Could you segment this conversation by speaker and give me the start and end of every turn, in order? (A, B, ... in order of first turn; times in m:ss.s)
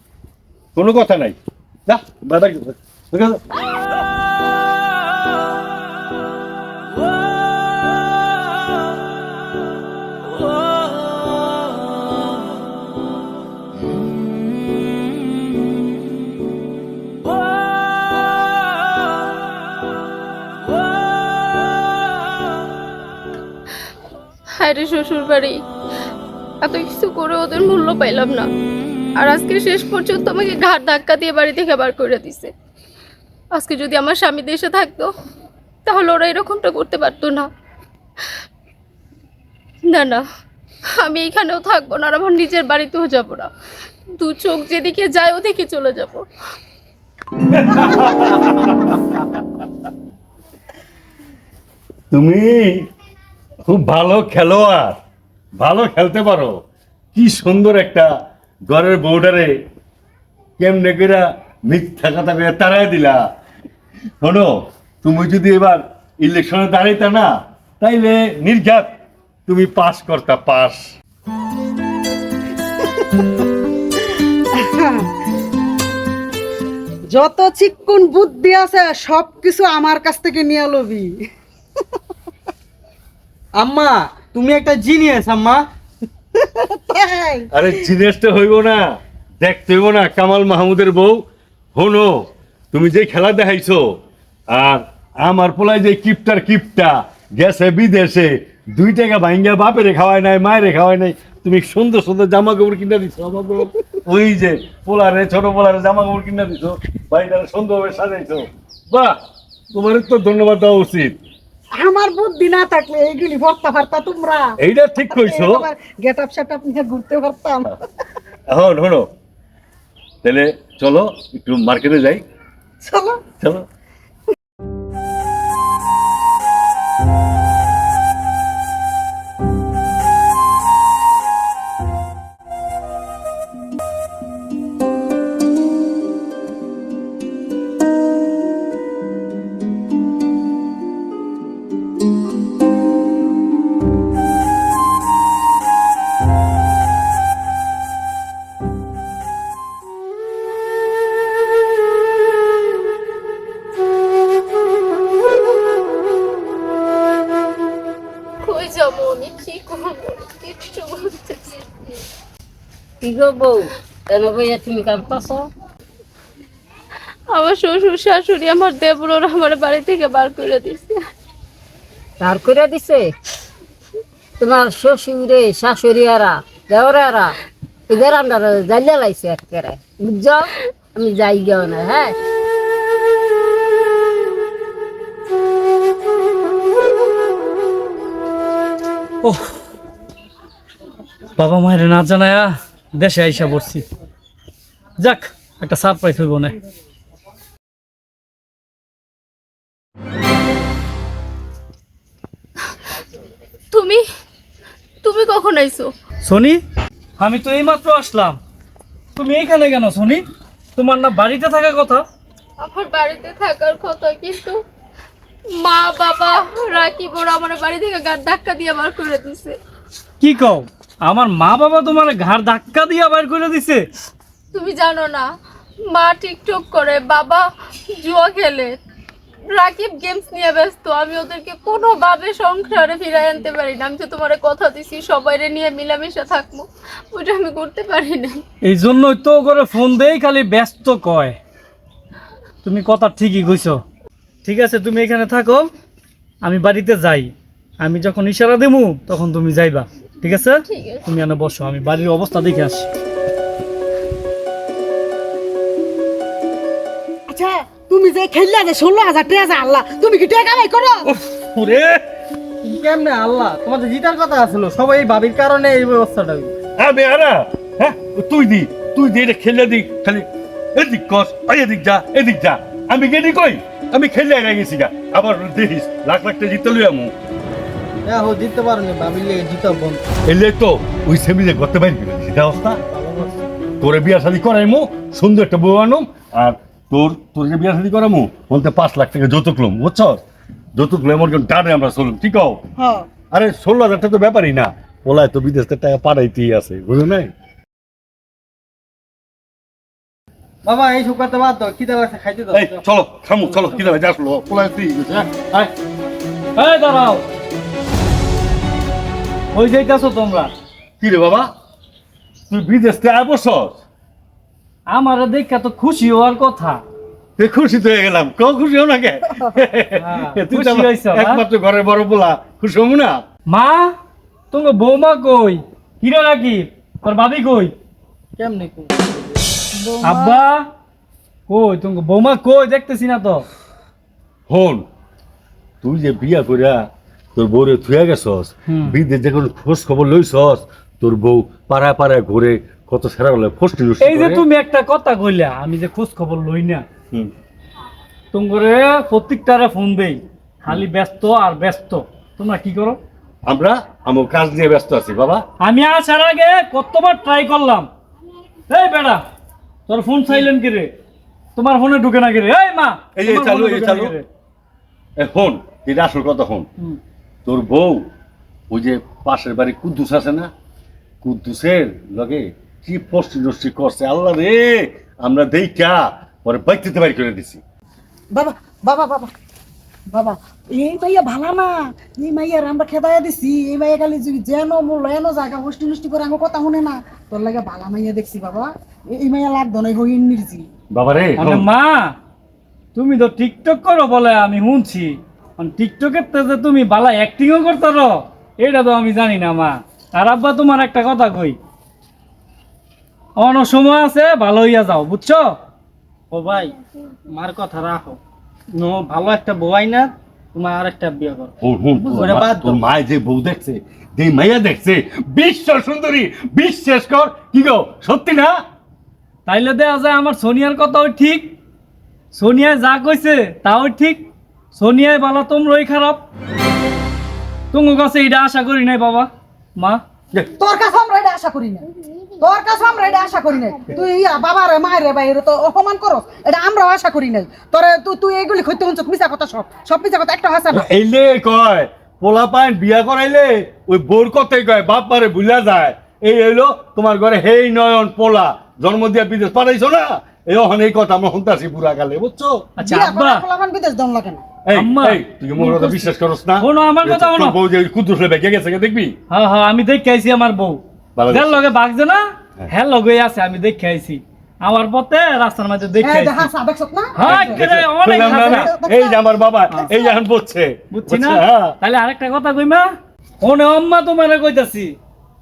0:00.8-0:03.4 A
0:24.6-0:25.6 B
0:26.6-0:28.5 B
0:29.2-0:32.5 B
0:33.5-0:35.1 B
0:35.8-0:37.5 B
0:39.9-0:40.2 B
0:41.0-0:43.5 B
0:44.2-0:46.3 B
0:47.5-0:49.4 A
0:52.1-0:52.8 A
0:53.7-0:55.0 A
0:55.6-0:56.6 A
0:57.1-0:58.1 A
0:58.7-0:59.5 A
1:00.6-1:03.2 A
1:04.2-1:08.9 A
1:09.5-1:10.8 A
1:14.6-1:15.1 C
1:17.1-1:21.2 C
1:23.6-1:25.6 D
1:26.4-1:27.8 C
1:27.5-1:28.9 A
1:29.4-1:31.2 A
1:31.8-1:34.0 A
1:34.5-1:49.1 A
1:49.7-1:51.2 A
1:51.8-1:54.5 C
1:54.6-1:55.6 A
1:55.1-1:57.8 C
1:58.5-1:59.1 A
2:00.2-2:02.2 A
2:02.8-2:03.2 C
2:38.4-2:41.6 B
2:43.0-2:45.5 E
2:47.3-2:51.0 B
2:52.2-2:53.1 E
2:54.4-2:57.4 E
2:57.9-3:02.2 E
3:09.2-3:09.6 F
3:11.4-3:13.9 F
3:15.0-3:16.6 F
3:23.7-3:24.0 B
3:25.0-3:25.9 B
3:26.2-3:26.6 F
3:27.2-3:28.4 F
3:29.2-3:30.2 F
3:30.8-3:32.0 F
3:32.6-3:34.6 B
3:35.6-3:39.6 B
3:40.2-3:43.8 F
3:44.5-3:45.2 B
3:45.9-3:48.8 B
3:49.5-3:58.4 B
3:58.6-4:01.4 F
4:02.6-4:03.8 F
4:04.4-4:05.7 F
4:06.4-4:12.9 F
4:10.6-4:11.0 B
4:17.3-4:21.1 C
4:21.1-4:22.0 A
4:22.6-4:26.5 D
4:26.8-4:37.1 A
4:38.0-4:40.0 D
4:40.3-4:42.8 A
4:42.9-4:43.3 D
4:43.8-4:50.2 A
4:50.8-4:52.6 A
4:52.8-4:53.1 C
4:53.3-4:57.3 A
5:00.6-5:02.8 D
5:02.5-5:05.7 A
5:06.6-5:07.2 F
5:09.5-5:10.5 F
5:11.0-5:11.5 A
5:12.5-5:13.8 A
5:14.9-5:16.8 F
5:17.4-5:23.2 A
5:20.0-5:21.4 F
5:23.5-5:23.9 F
5:24.5-5:27.7 F
5:28.4-5:29.4 D
5:29.7-5:30.4 C
5:30.0-5:30.6 F
5:31.5-5:33.4 F
5:34.5-5:34.8 A
5:35.8-5:36.8 A
5:37.4-5:44.4 A
5:38.7-5:39.0 F
5:44.0-5:46.8 F
5:48.3-5:53.0 F
5:53.5-5:55.4 A
5:55.6-5:57.9 F
5:58.7-5:59.2 F
5:59.9-6:00.9 F
6:01.6-6:04.2 F
6:03.2-6:04.1 A
6:05.2-6:06.7 A
6:07.5-6:08.1 A
6:08.7-6:10.5 A
6:11.2-6:17.6 A
6:18.3-6:19.3 C
6:20.1-6:30.7 C
6:30.9-6:31.7 A
6:31.4-6:32.1 F
6:32.9-6:41.6 F
6:43.4-6:45.5 F
6:46.3-6:46.7 D
6:47.3-6:48.2 D
6:48.8-6:51.5 D
6:51.6-6:58.5 A
6:52.0-6:52.8 D
6:59.5-7:01.5 F
7:02.3-7:06.2 F
7:07.7-7:10.0 F
7:10.4-7:11.8 C
7:12.4-7:20.8 C
7:20.7-7:32.7 A
7:32.8-7:33.4 F
7:32.8-7:34.4 C
7:34.6-7:39.1 A
7:34.7-7:35.2 F
7:36.6-7:37.6 F
7:39.3-7:46.5 F
7:41.2-7:41.6 A
7:46.0-7:50.1 C
7:47.2-7:48.7 F
7:47.2-7:51.7 A
7:50.9-7:52.9 F
7:53.4-7:55.0 F